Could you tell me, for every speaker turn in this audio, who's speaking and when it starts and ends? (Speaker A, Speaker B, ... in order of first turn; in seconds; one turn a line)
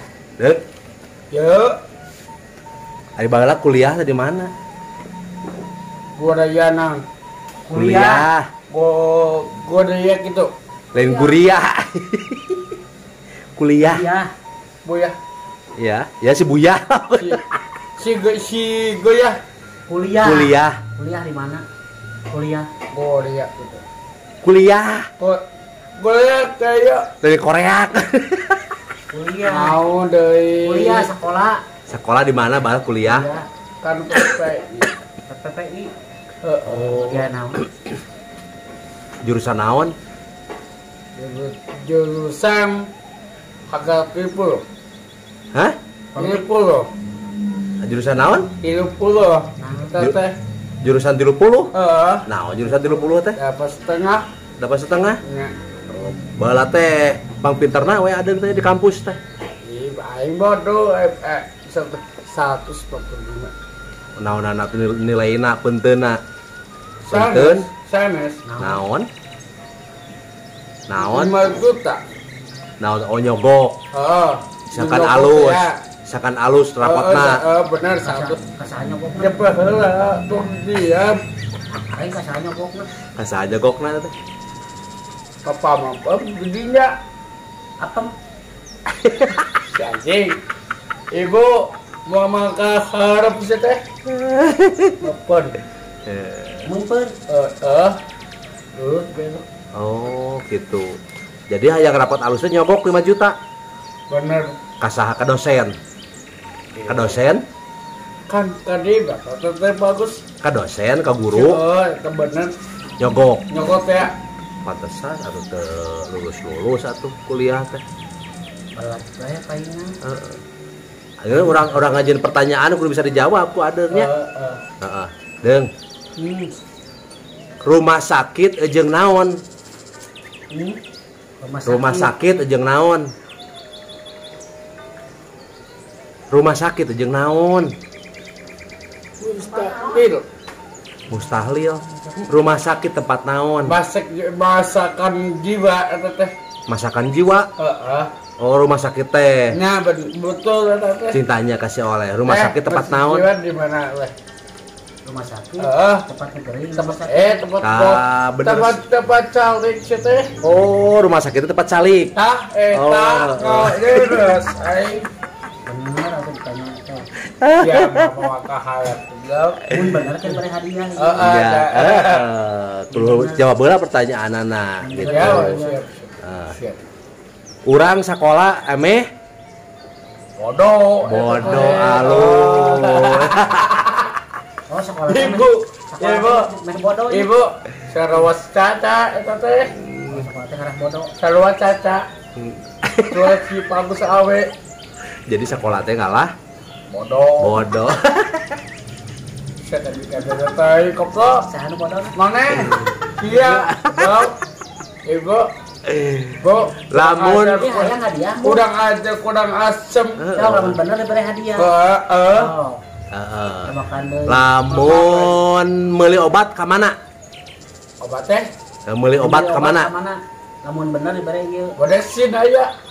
Speaker A: 0.4-0.6
Speaker B: 1.3-1.8
Speaker A: 3.2-4.5
Speaker B: 6.2-7.0
Speaker C: 7.7-8.2
Speaker A: 7.7-8.5
Speaker B: 8.7-10.5
Speaker A: 10.9-12.8
Speaker C: 10.9-11.4
Speaker A: 13.6-14.0
Speaker C: 13.8-14.3
Speaker B: 14.8-15.2
Speaker A: 15.8-17.4
Speaker B: 18.0-19.4
Speaker C: 19.9-21.6
Speaker A: 20.2-20.8
Speaker C: 22.3-22.7
Speaker B: 22.9-23.8
Speaker A: 24.4-25.1
Speaker B: 26.0-27.1
Speaker A: 27.2-28.7
Speaker C: 29.1-29.8
Speaker B: 29.5-31.1
Speaker C: 30.6-31.6
Speaker A: 31.9-33.3
Speaker C: 33.0-33.5
Speaker B: 33.8-34.9
Speaker C: 35.3-35.9
Speaker B: 36.4-37.3
Speaker C: 36.7-37.6
Speaker A: 39.2-39.9
Speaker B: 41.1-42.9
Speaker B: 43.7-44.6
Speaker C: 46.1-46.4
Speaker B: 46.2-46.9
Speaker A: 47.8-48.5
Speaker B: 48.6-50.4
Speaker C: 49.6-50.0
Speaker A: 50.8-51.7
Speaker B: 51.7-52.3
Speaker A: 52.2-53.4
Speaker B: 53.4-54.3
Speaker A: 54.6-55.2
Speaker B: 55.2-55.5
Speaker A: 55.9-59.2
Speaker B: 59.6-63.5
Speaker A: 64.2-66.2
Speaker B: 67.0-68.4
Speaker A: 67.1-67.7
Speaker C: 68.4-68.8
Speaker A: 68.6-69.1
Speaker A: 70.9-71.4
Speaker B: 71.0-72.0
Speaker A: 72.8-73.8
Speaker B: 73.9-75.8
Speaker A: 74.7-77.4
Speaker B: 76.8-78.4
Speaker C: 78.0-79.5
Speaker B: 79.2-81.2
Speaker C: 81.8-82.9
Speaker A: 83.2-84.1
Speaker B: 85.4-86.9
Speaker C: 87.8-88.1
Speaker A: 89.0-89.3
Speaker B: 89.7-90.4
Speaker B: 91.1-93.8
Speaker A: 94.1-95.0
Speaker B: 95.0-95.6
Speaker A: 96.0-96.7
Speaker C: 96.6-97.1
Speaker B: 97.3-98.0
Speaker B: 98.8-99.4
Speaker A: 99.7-101.0
Speaker A: 101.5-103.3
Speaker B: 104.1-104.5
Speaker A: 104.8-105.8
Speaker B: 106.8-107.2
Speaker A: 106.9-107.4
Speaker B: 108.3-110.2
Speaker A: 110.4-111.6
Speaker B: 111.3-112.5
Speaker A: 113.0-113.4
Speaker B: 113.5-114.1
Speaker A: 114.6-117.8
Speaker C: 118.8-120.0
Speaker A: 120.0-120.4
Speaker A: 121.2-124.1
Speaker B: 123.9-124.6
Speaker A: 124.8-125.7
Speaker B: 126.2-126.5
Speaker A: 127.6-129.4
Speaker B: 130.5-130.8
Speaker C: 131.4-132.1
Speaker A: 131.7-133.1
Speaker A: 136.3-137.7
Speaker B: 139.2-140.2
Speaker C: 139.4-140.0
Speaker A: 141.1-143.8
Speaker C: 141.9-142.3
Speaker B: 143.7-146.3
Speaker A: 146.7-147.5
Speaker B: 147.6-148.1
Speaker A: 148.4-149.6
Speaker B: 149.5-151.2
Speaker A: 151.1-153.3
Speaker B: 152.3-154.1
Speaker C: 155.0-157.4
Speaker B: 155.6-156.1
Speaker B: 156.7-160.3
Speaker A: 157.6-158.8
Speaker A: 160.4-162.1
Speaker B: 162.2-165.1
Speaker A: 162.7-164.3
Speaker C: 165.7-167.1
Speaker A: 167.3-168.2
Speaker B: 167.6-169.7
Speaker C: 169.7-171.2
Speaker B: 171.0-172.3
Speaker A: 171.2-175.6
Speaker C: 172.9-173.4
Speaker C: 174.8-175.8
Speaker B: 175.0-176.8
Speaker A: 176.2-176.5
Speaker A: 177.7-179.0
Speaker B: 180.4-184.0
Speaker A: 181.0-183.7
Speaker C: 181.2-182.1
Speaker C: 184.7-187.3
Speaker B: 185.1-186.5
Speaker B: 187.1-189.7
Speaker A: 189.8-190.3
Speaker C: 190.1-191.1
Speaker B: 191.2-192.0
Speaker A: 192.3-193.3
Speaker B: 193.1-194.5
Speaker A: 195.3-196.3
Speaker B: 196.9-197.6
Speaker A: 197.4-198.6
Speaker B: 199.7-201.5
Speaker C: 201.4-202.1
Speaker B: 202.1-204.3
Speaker A: 202.5-204.1
Speaker B: 205.1-205.5
Speaker A: 205.8-207.7
Speaker B: 206.4-210.2
Speaker C: 207.6-208.6
Speaker A: 210.2-210.8
Speaker C: 210.3-211.7
Speaker B: 211.6-212.5
Speaker C: 212.3-212.8
Speaker A: 213.1-213.8
Speaker C: 213.6-214.5
Speaker A: 214.3-216.9
Speaker B: 214.7-215.4
Speaker B: 218.0-218.5
Speaker A: 218.9-219.9
Speaker C: 219.2-221.7
Speaker B: 221.8-222.7